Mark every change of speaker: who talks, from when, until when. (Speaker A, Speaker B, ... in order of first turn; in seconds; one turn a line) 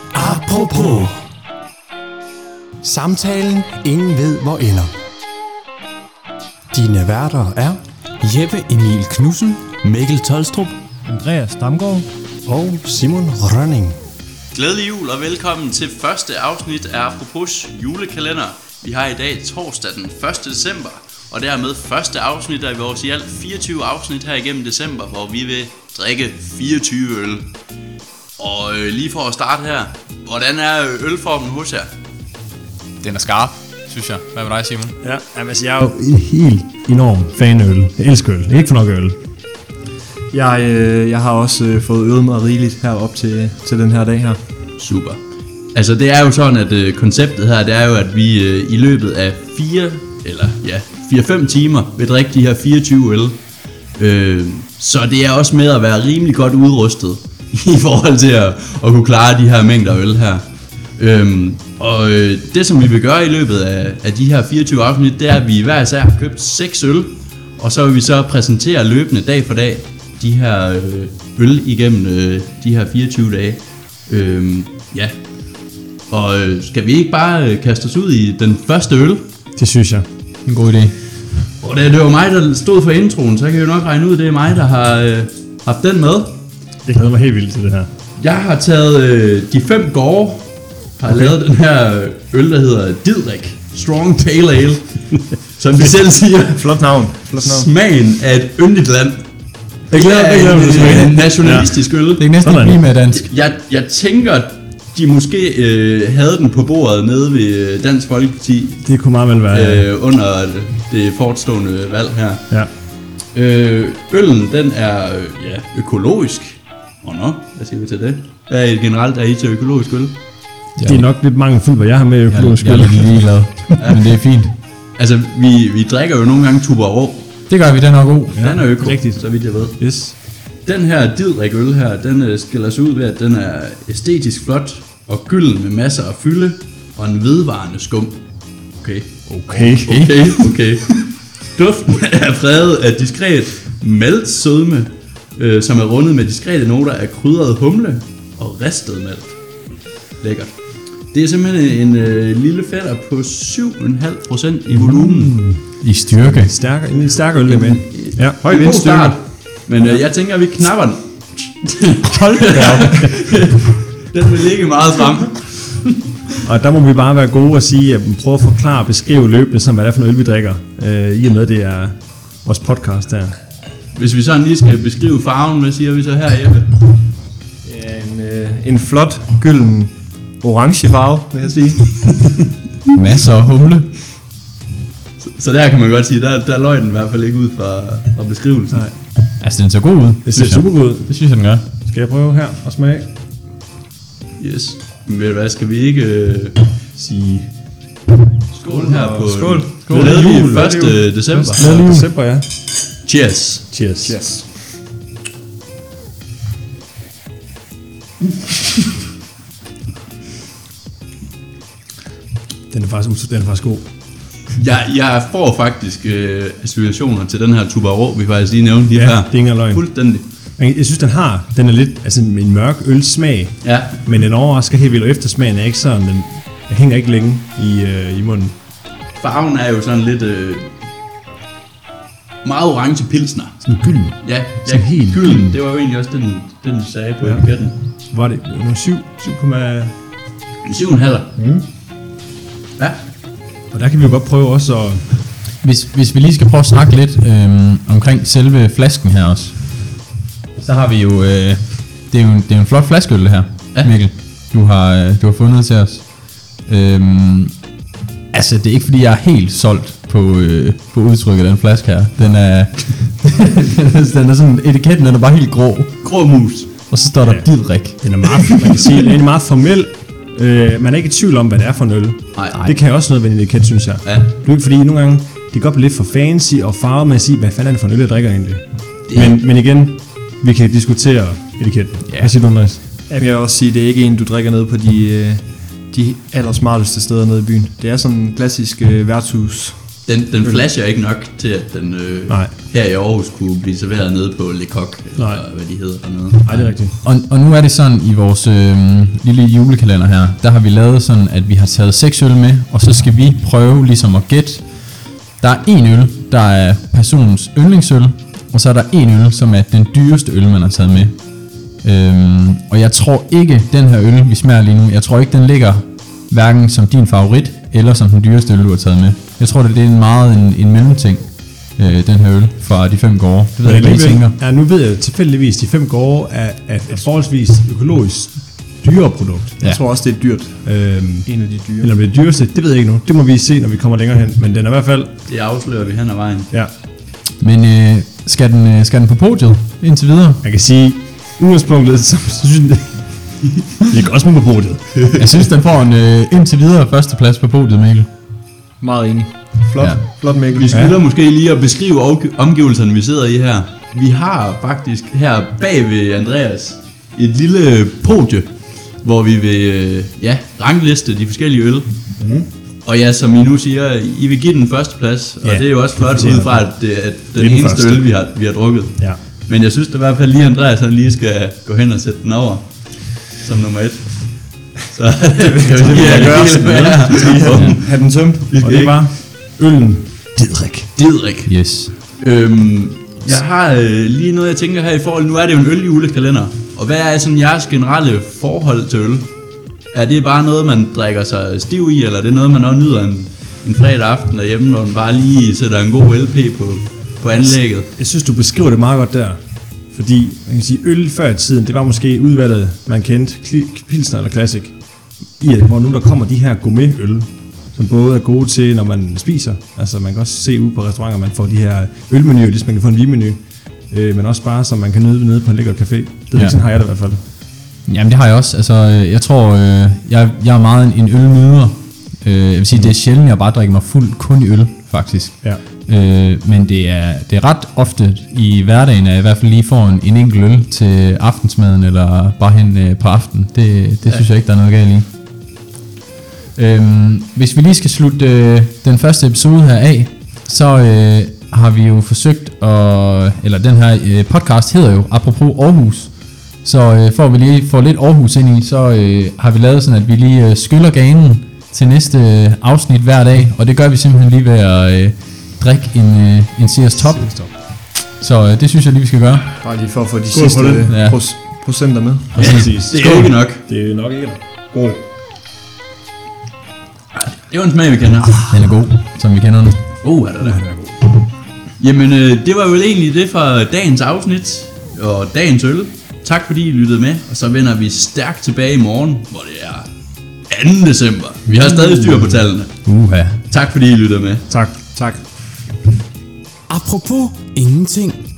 Speaker A: 0.2-1.0
Speaker B: 0.4-1.1
Speaker C: 2.8-4.9
Speaker A: 7.3-7.7
Speaker D: 8.2-9.7
Speaker C: 11.1-12.1
Speaker A: 12.5-14.0
Speaker E: 14.5-27.4
Speaker E: 28.4-31.9
Speaker D: 33.0-34.9
Speaker A: 35.0-39.2
Speaker C: 40.3-44.4
Speaker E: 44.8-45.2
Speaker E: 45.7-53.4
Speaker E: 54.0-60.4
Speaker E: 61.0-75.1
Speaker E: 76.1-79.2
Speaker A: 79.6-80.0
Speaker D: 80.5-80.9
Speaker E: 81.6-86.4
Speaker A: 86.8-87.9
Speaker E: 88.2-99.2
Speaker A: 91.1-91.3
Speaker C: 96.5-97.7
Speaker E: 99.9-102.3
Speaker A: 99.9-101.8
Speaker D: 102.2-103.2
Speaker A: 102.4-102.8
Speaker E: 103.1-108.8
Speaker A: 108.8-109.9
Speaker E: 109.5-112.5
Speaker E: 113.3-120.2
Speaker D: 120.8-121.0
Speaker A: 120.8-123.2
Speaker D: 122.3-124.5
Speaker E: 123.8-124.1
Speaker E: 125.0-127.3
Speaker D: 127.5-128.4
Speaker E: 128.3-129.8
Speaker A: 128.3-130.2
Speaker E: 130.7-138.2
Speaker E: 138.8-149.3
Speaker A: 139.3-140.0
Speaker D: 139.9-140.4
Speaker E: 150.2-150.5
Speaker E: 151.1-155.3
Speaker A: 154.8-155.6
Speaker D: 155.8-156.5
Speaker A: 156.2-159.2
Speaker E: 157.5-166.0
Speaker A: 162.4-163.1
Speaker A: 166.4-173.4
Speaker E: 173.9-176.9
Speaker C: 177.7-181.9
Speaker D: 182.9-183.9
Speaker E: 185.2-188.9
Speaker D: 189.4-191.7
Speaker A: 190.2-191.1
Speaker A: 191.9-193.1
Speaker E: 194.4-196.6
Speaker A: 197.0-197.5
Speaker E: 198.5-201.7
Speaker C: 198.7-199.7
Speaker D: 199.9-200.6
Speaker A: 199.9-202.5
Speaker C: 200.5-200.9
Speaker D: 201.5-202.1
Speaker E: 203.0-203.7
Speaker A: 203.7-204.2
Speaker C: 204.0-204.5
Speaker A: 212.7-213.9
Speaker E: 214.6-220.3
Speaker A: 218.9-219.8
Speaker A: 220.6-228.5
Speaker E: 223.6-223.9
Speaker E: 229.2-230.7
Speaker E: 232.4-233.6
Speaker A: 233.6-235.6
Speaker E: 234.2-237.8
Speaker A: 238.1-239.9
Speaker E: 240.6-241.3
Speaker A: 241.4-241.6
Speaker A: 243.7-245.1
Speaker D: 245.6-249.6
Speaker D: 250.6-256.1
Speaker D: 256.6-257.5
Speaker D: 258.3-265.9
Speaker E: 266.0-266.7
Speaker D: 266.9-268.6
Speaker A: 268.0-282.8
Speaker E: 272.3-272.6
Speaker E: 279.1-279.3
Speaker C: 283.1-289.8
Speaker E: 290.1-296.7
Speaker A: 295.2-295.4
Speaker A: 296.4-296.9
Speaker D: 296.5-304.6
Speaker D: 305.4-311.1
Speaker D: 311.8-324.3
Speaker A: 323.6-329.6
Speaker C: 329.6-330.6
Speaker A: 330.6-335.1
Speaker C: 331.2-331.9
Speaker E: 335.3-336.5
Speaker D: 337.4-340.4
Speaker A: 340.4-343.0
Speaker A: 343.9-344.8
Speaker E: 344.9-345.4
Speaker D: 345.2-348.1
Speaker C: 348.8-350.9
Speaker D: 349.8-350.0
Speaker E: 350.5-358.5
Speaker A: 350.7-351.0
Speaker E: 359.0-361.9
Speaker A: 362.2-362.4
Speaker E: 362.8-372.6
Speaker A: 365.4-366.7
Speaker A: 367.3-368.1
Speaker E: 373.3-374.2
Speaker E: 374.9-377.9
Speaker C: 375.6-378.5
Speaker A: 375.6-377.7
Speaker E: 378.4-379.0
Speaker A: 378.6-380.9
Speaker E: 380.9-381.5
Speaker D: 381.4-381.9
Speaker E: 382.2-389.3
Speaker E: 389.9-397.9
Speaker A: 398.0-399.4
Speaker A: 399.9-404.7
Speaker A: 405.4-413.4
Speaker A: 413.9-417.2
Speaker D: 417.9-435.1
Speaker D: 436.6-446.1
Speaker D: 446.6-457.3
Speaker A: 457.0-457.4
Speaker D: 458.2-459.5
Speaker C: 459.6-462.3
Speaker A: 460.3-460.9
Speaker D: 460.9-461.2
Speaker D: 462.3-462.8
Speaker E: 462.4-463.6
Speaker A: 462.4-465.0
Speaker E: 467.1-468.5
Speaker D: 468.5-469.8
Speaker E: 470.0-470.6
Speaker A: 470.4-470.9
Speaker E: 471.8-479.9
Speaker E: 480.5-482.7
Speaker A: 481.6-482.3
Speaker D: 482.8-483.4
Speaker E: 483.5-484.5
Speaker A: 484.5-485.1
Speaker D: 486.7-487.4
Speaker B: 486.7-488.2